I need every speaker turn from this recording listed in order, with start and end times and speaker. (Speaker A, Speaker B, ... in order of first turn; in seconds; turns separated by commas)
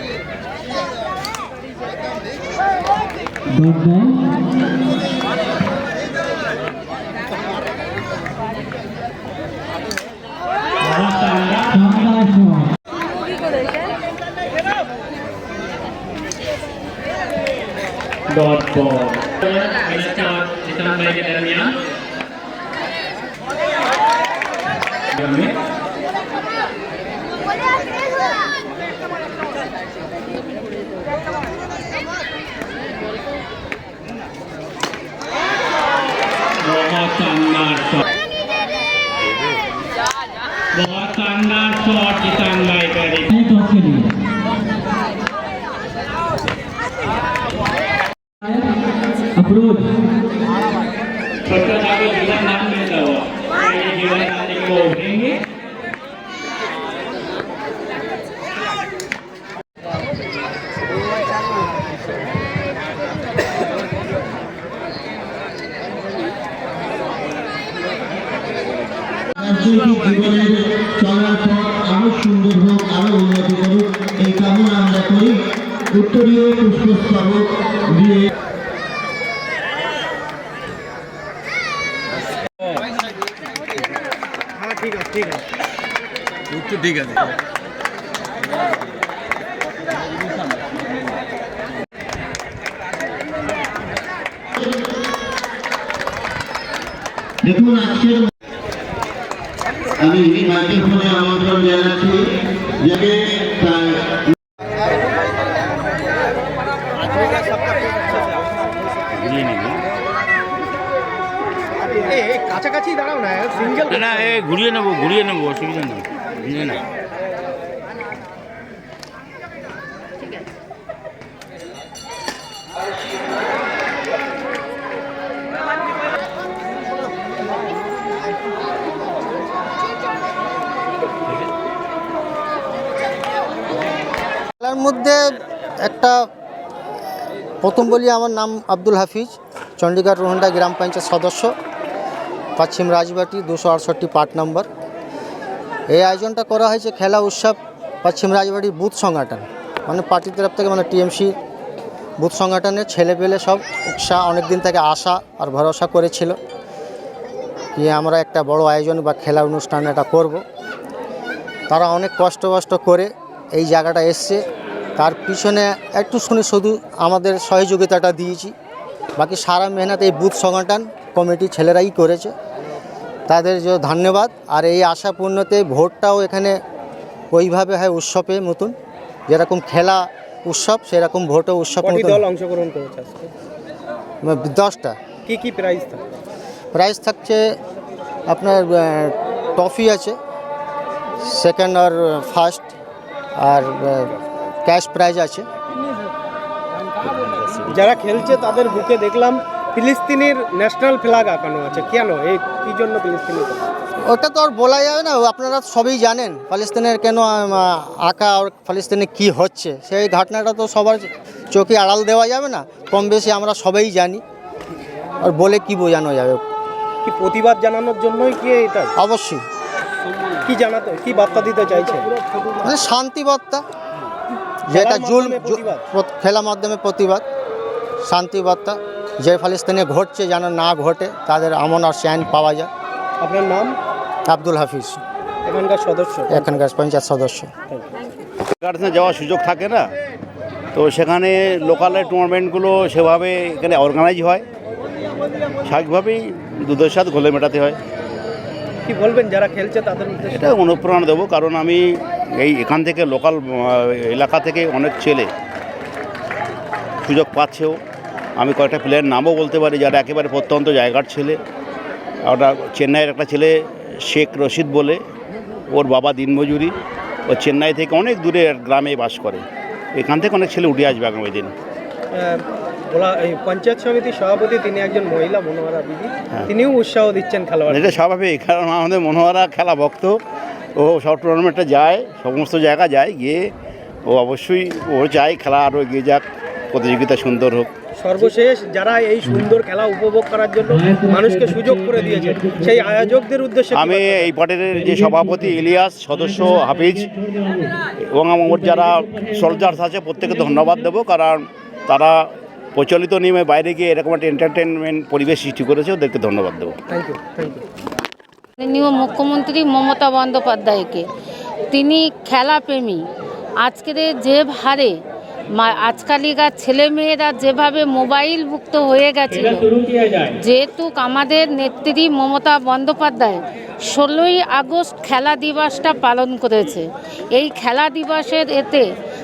Speaker A: 3.5-4.2, Speaker A: 10.8-12.6, Speaker A: 18.3-21.8, Speaker A: 25.1-25.5, Speaker A: 36.6-38.0, Speaker A: 40.7-44.1, Speaker A: 49.4-49.9, Speaker A: 51.4-55.4, Speaker B: 69.4-78.3, Speaker C: 84.6-85.4, Speaker B: 97.4-98.3, Speaker B: 100.0-104.3, Speaker C: 107.1-108.4, Speaker D: 109.2-109.8, Speaker C: 112.0-114.3, Speaker D: 113.9-116.8, Speaker E: 134.6-136.2, Speaker E: 137.6-141.5, Speaker E: 142.6-144.7, Speaker E: 145.9-151.3, Speaker E: 152.2-156.3, Speaker E: 157.8-160.4, Speaker E: 161.7-164.4, Speaker E: 165.0-168.5, Speaker E: 169.2-172.3, Speaker E: 173.3-176.6, Speaker E: 177.3-178.7, Speaker E: 179.3-182.2, Speaker C: 181.8-183.3, Speaker E: 184.2-184.9, Speaker C: 185.2-186.0, Speaker E: 186.7-187.5, Speaker E: 188.3-190.2, Speaker E: 191.2-192.7, Speaker E: 193.4-194.1, Speaker E: 194.6-195.4, Speaker D: 197.1-197.7, Speaker C: 197.7-203.7, Speaker E: 204.0-214.2, Speaker E: 215.2-216.4, Speaker C: 217.0-218.9, Speaker E: 219.0-219.4, Speaker C: 220.4-222.7, Speaker E: 222.6-223.6, Speaker E: 224.7-227.2, Speaker C: 224.7-225.8, Speaker E: 228.0-232.7, Speaker C: 233.2-233.8, Speaker E: 234.3-235.0, Speaker C: 235.4-236.6, Speaker E: 236.3-237.5, Speaker D: 238.6-239.9, Speaker D: 240.7-244.4, Speaker D: 245.6-247.8, Speaker C: 248.8-250.6, Speaker D: 250.3-255.3, Speaker D: 257.0-257.8, Speaker D: 258.4-261.4, Speaker D: 262.2-265.0, Speaker D: 265.7-266.8, Speaker D: 267.3-271.5, Speaker C: 272.1-278.0, Speaker D: 277.7-280.2, Speaker D: 280.8-283.5, Speaker D: 284.1-287.7, Speaker C: 288.0-294.3, Speaker A: 290.6-293.2, Speaker D: 293.7-297.1, Speaker A: 294.7-300.9, Speaker D: 298.1-306.8, Speaker C: 306.9-307.6, Speaker F: 308.6-311.1, Speaker F: 311.7-313.1, Speaker F: 313.6-315.0, Speaker F: 315.5-319.6, Speaker A: 319.3-320.4, Speaker F: 320.4-328.9